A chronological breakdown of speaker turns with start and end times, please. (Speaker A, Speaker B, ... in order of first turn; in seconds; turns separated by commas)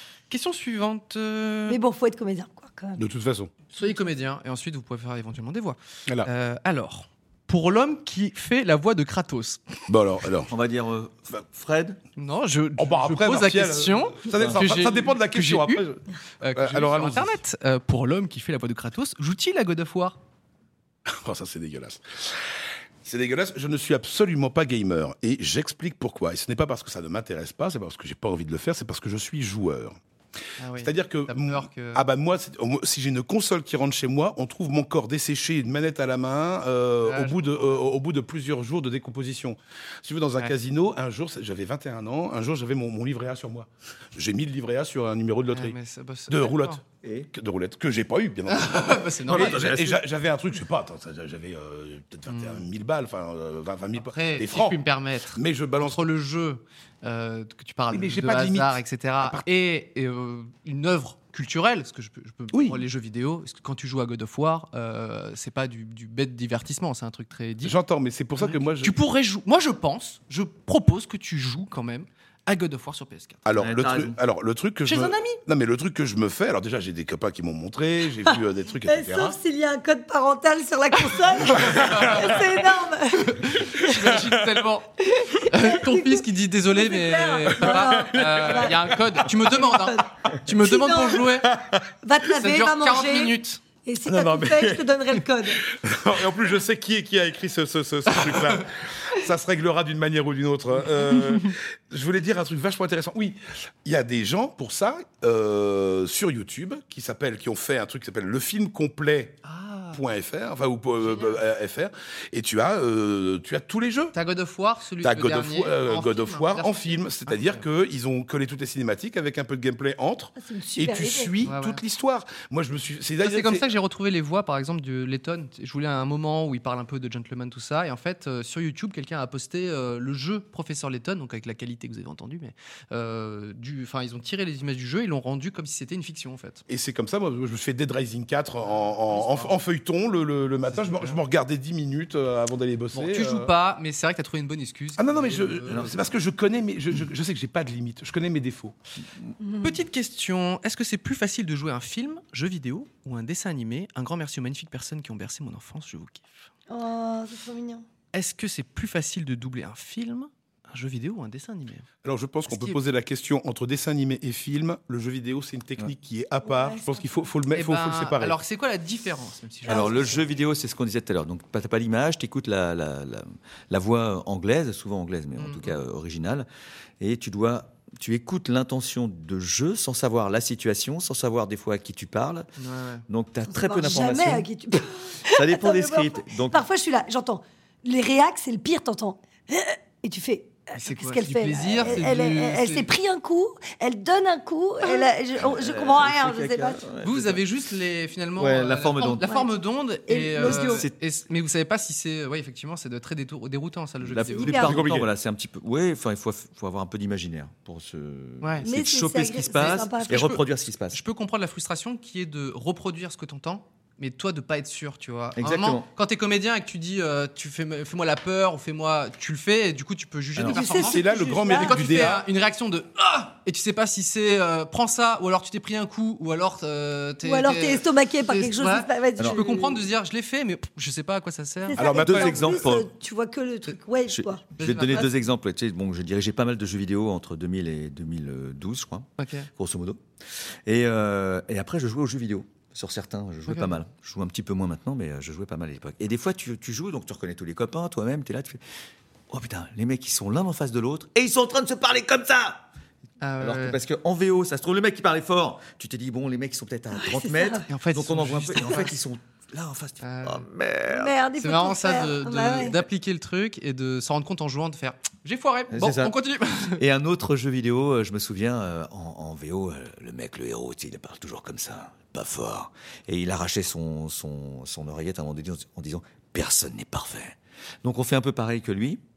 Speaker A: 0.3-1.8, Speaker B: 1.7-3.0, Speaker C: 3.0-3.5, Speaker A: 3.7-9.6, Speaker C: 9.9-10.5, Speaker D: 10.5-12.0, Speaker A: 12.2-15.8, Speaker C: 12.8-16.0, Speaker D: 14.3-14.6, Speaker A: 16.4-20.2, Speaker C: 16.5-17.4, Speaker C: 21.1-22.4, Speaker C: 23.0-30.0, Speaker A: 30.6-32.0, Speaker C: 30.8-45.8, Speaker A: 37.0-37.8, Speaker A: 45.5-46.8, Speaker C: 46.3-54.8, Speaker D: 47.0-47.3, Speaker A: 48.5-50.0, Speaker D: 49.3-49.9, Speaker A: 52.3-52.6, Speaker A: 54.0-67.8, Speaker C: 55.3-56.0, Speaker C: 57.9-59.4, Speaker C: 62.5-62.8, Speaker C: 67.6-69.0, Speaker A: 68.4-73.4, Speaker C: 73.4-79.4, Speaker D: 73.6-74.2, Speaker A: 74.9-75.3, Speaker B: 78.8-84.1, Speaker A: 81.5-82.3, Speaker C: 81.8-82.1, Speaker A: 83.2-91.5, Speaker B: 85.0-91.3, Speaker C: 87.7-88.7, Speaker C: 91.5-91.8, Speaker B: 92.0-95.7, Speaker A: 92.3-93.6, Speaker C: 94.0-94.8, Speaker C: 95.6-109.4, Speaker A: 98.3-98.6, Speaker A: 109.4-110.0, Speaker C: 109.9-114.1, Speaker A: 111.0-111.4, Speaker A: 114.1-117.6, Speaker C: 115.0-123.7, Speaker B: 120.4-121.3, Speaker A: 121.4-121.8, Speaker A: 123.2-136.6, Speaker C: 136.7-143.5, Speaker A: 138.6-139.6, Speaker A: 140.7-141.2, Speaker A: 142.9-146.0, Speaker C: 145.0-148.7, Speaker B: 149.4-149.8, Speaker A: 149.6-156.4, Speaker B: 156.7-157.8, Speaker A: 158.1-161.9, Speaker C: 162.0-168.4, Speaker A: 162.5-162.8, Speaker B: 166.4-167.2, Speaker A: 167.5-170.2, Speaker D: 169.7-176.5, Speaker B: 169.7-170.0, Speaker A: 175.4-175.8, Speaker D: 177.0-182.5, Speaker A: 182.6-183.0, Speaker D: 183.1-186.7, Speaker B: 183.4-196.8, Speaker A: 190.7-192.9, Speaker D: 195.3-197.4, Speaker A: 197.0-204.9, Speaker D: 198.4-199.3, Speaker B: 199.2-199.5, Speaker B: 200.1-200.9, Speaker D: 200.4-200.9, Speaker D: 204.0-211.0, Speaker B: 204.3-204.8, Speaker C: 204.7-205.0, Speaker A: 208.4-208.7, Speaker B: 208.6-210.4, Speaker A: 210.1-231.8, Speaker D: 215.3-215.9, Speaker B: 220.5-222.1, Speaker C: 220.5-222.2, Speaker B: 227.2-229.9, Speaker D: 229.2-229.4, Speaker B: 231.7-235.1, Speaker C: 231.8-232.6, Speaker D: 231.8-232.9, Speaker D: 234.1-240.0, Speaker A: 234.6-235.1, Speaker A: 239.2-239.5, Speaker D: 240.7-248.6, Speaker A: 243.5-243.8, Speaker D: 249.3-252.7, Speaker A: 253.2-253.8, Speaker D: 253.4-261.1, Speaker B: 257.0-257.6, Speaker A: 257.7-258.9, Speaker A: 260.0-260.4, Speaker B: 260.9-262.8, Speaker A: 261.4-266.8, Speaker D: 265.7-279.0